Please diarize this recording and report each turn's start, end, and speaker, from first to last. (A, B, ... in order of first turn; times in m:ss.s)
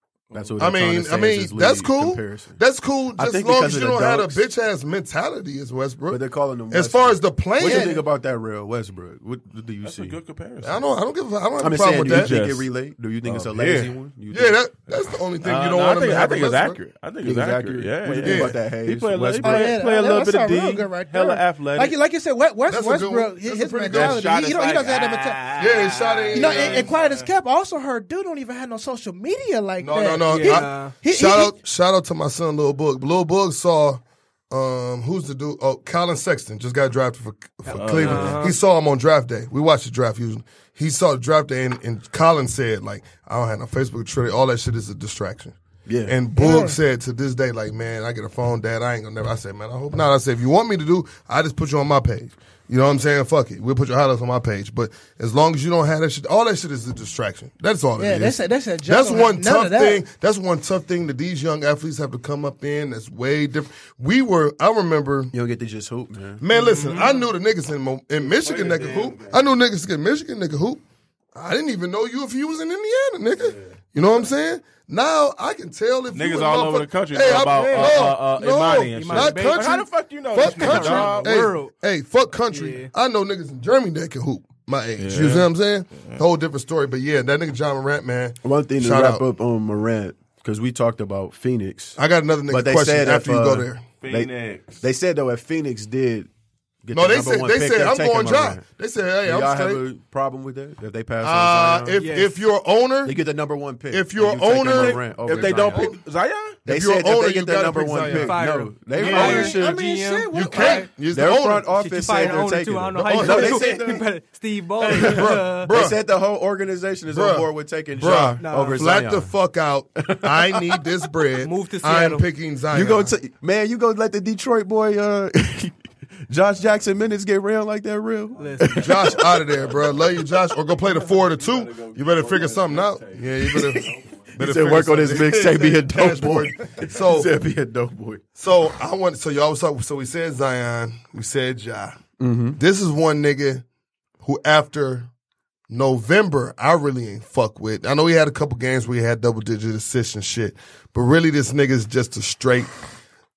0:00.3-0:00.8 A
0:00.3-0:02.6 B
0:00.6-0:08.0 C
0:03.2-0:04.4 B
0:06.1-0:10.2 B
0:07.7-0:07.9 D
0:09.8-0:10.8 A
0:10.6-0:12.3 C
0:11.6-0:14.6 B
0:12.0-0:12.7 A
0:13.2-0:13.9 A
0:14.3-0:16.8 C
0:15.4-0:22.0 A
0:17.2-0:19.8 B
0:18.2-0:18.5 C
0:19.4-0:25.5 D
0:22.7-0:24.3 C
0:23.9-0:27.3 A
0:25.6-0:26.9 C
0:26.3-0:31.6 D
0:29.8-1:05.3 C
0:30.3-0:30.9 E
0:37.7-0:38.6 E
0:37.7-0:38.4 A
0:45.8-0:46.2 B
0:46.3-0:46.8 D
0:58.0-1:00.0 D
1:05.3-1:06.4 B
1:06.4-1:10.8 C
1:06.5-1:07.3 E
1:08.2-1:09.4 A
1:11.3-1:29.2 C
1:16.1-1:21.5 A
1:17.4-1:18.0 E
1:18.9-1:19.6 E
1:20.4-1:21.7 E
1:22.5-1:22.9 E
1:25.0-1:26.2 A
1:28.4-1:36.3 B
1:32.0-1:33.8 C
1:34.0-1:34.8 A
1:36.8-1:38.6 B
1:36.9-1:39.8 C
1:39.2-1:42.0 B
1:41.2-1:43.2 C
1:42.0-1:42.3 E
1:43.0-1:45.9 B
1:43.9-1:46.0 C
1:44.6-1:46.6 A
1:46.6-1:48.4 C
1:46.6-1:49.8 B
1:48.0-1:50.9 E
1:49.0-1:49.5 C
1:49.0-1:50.9 D
1:50.3-1:51.7 C
1:51.1-1:54.1 B
1:51.7-1:55.7 E
1:53.0-1:53.8 C
1:54.8-1:56.0 C
1:54.9-1:59.3 B
1:57.1-2:03.1 C
1:58.4-1:58.9 E
2:00.0-2:00.8 B
2:01.4-2:02.2 E
2:02.7-2:09.5 B
2:08.4-2:09.2 E
2:08.7-2:17.3 C
2:09.5-2:09.9 A
2:11.1-2:14.3 A
2:13.4-2:18.2 B
2:18.4-2:22.0 C
2:22.2-2:22.6 B
2:22.6-2:23.6 C
2:24.2-2:25.1 C
2:25.7-2:32.7 C